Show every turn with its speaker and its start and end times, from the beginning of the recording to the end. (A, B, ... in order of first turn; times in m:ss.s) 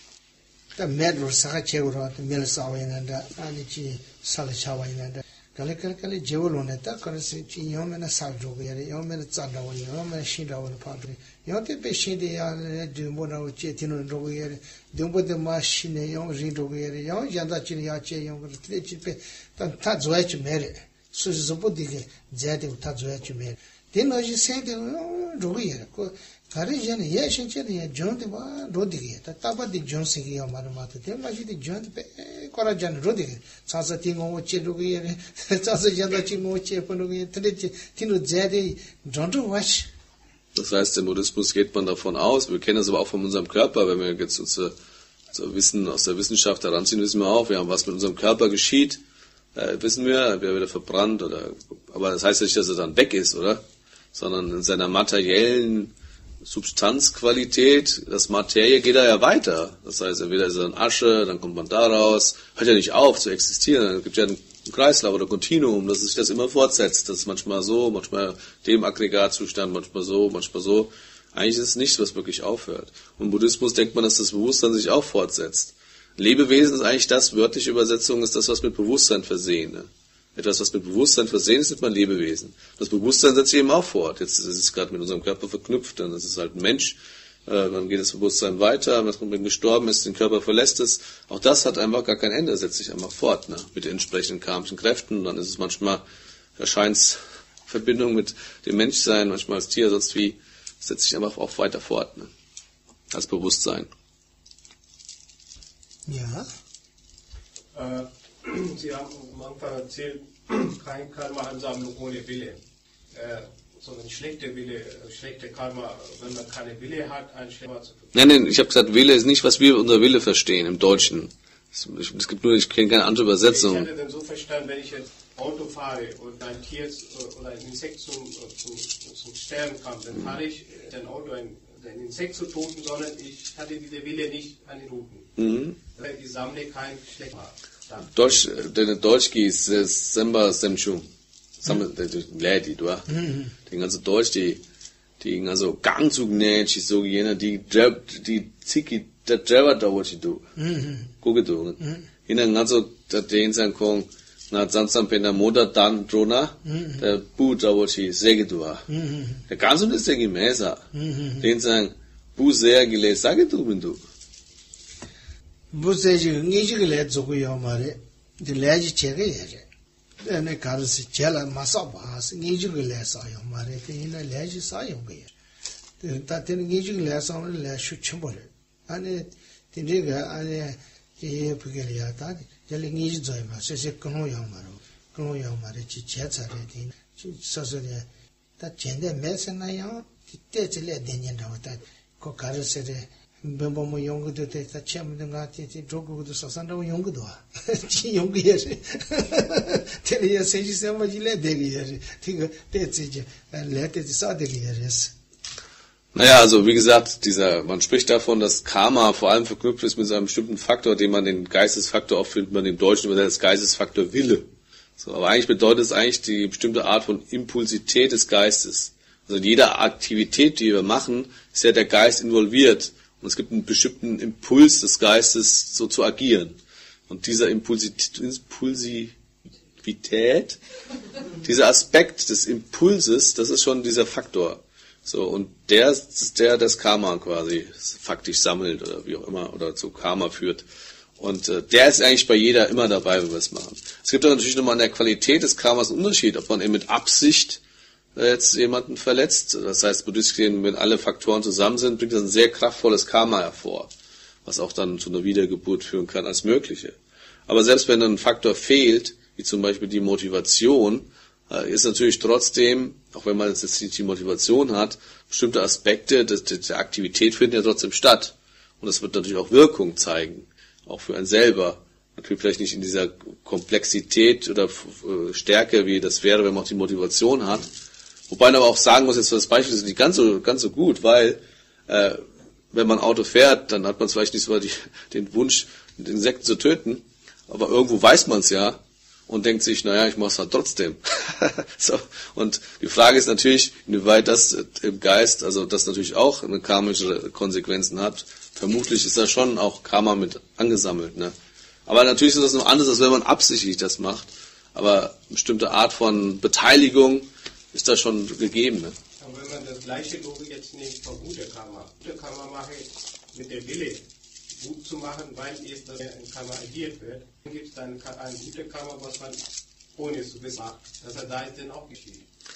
0:00.8-0:39.9 A
0:40.5-0:44.7 B
0:45.3-0:49.0 B
0:49.5-0:53.6 B
0:54.1-1:36.0 B
1:36.6-1:42.3 B
1:43.1-1:43.9 B
1:46.1-1:46.5 A
1:47.7-1:52.6 C
1:53.1-1:58.1 C
1:58.1-2:03.9 B
2:03.4-2:15.3 C
2:15.4-2:15.8 B
2:15.9-2:18.2 C
2:18.1-2:21.1 B
2:21.6-2:23.1 B
2:23.1-2:23.5 A
2:23.7-2:24.6 B
2:25.2-2:30.4 B
2:30.6-2:31.1 A
2:31.2-2:38.8 B
2:36.6-2:37.1 A
2:38.9-2:39.4 A
2:39.5-2:40.8 B
2:40.9-2:41.5 A
2:41.4-2:44.0 B
2:45.7-2:49.6 A
2:50.2-2:55.3 A
2:56.0-3:08.1 A
3:08.6-3:25.1 A
3:26.1-3:34.5 B
3:35.0-3:46.6 B
3:47.1-3:49.2 B
3:49.8-3:50.6 B
3:51.4-4:00.6 B
4:01.2-4:07.6 B
4:08.1-4:13.9 B
4:14.4-4:17.0 B
4:17.5-4:37.7 B
4:38.3-5:01.3 B
5:01.9-5:09.0 B
5:09.2-5:14.0 C
5:14.6-5:19.4 C
5:20.0-5:22.2 C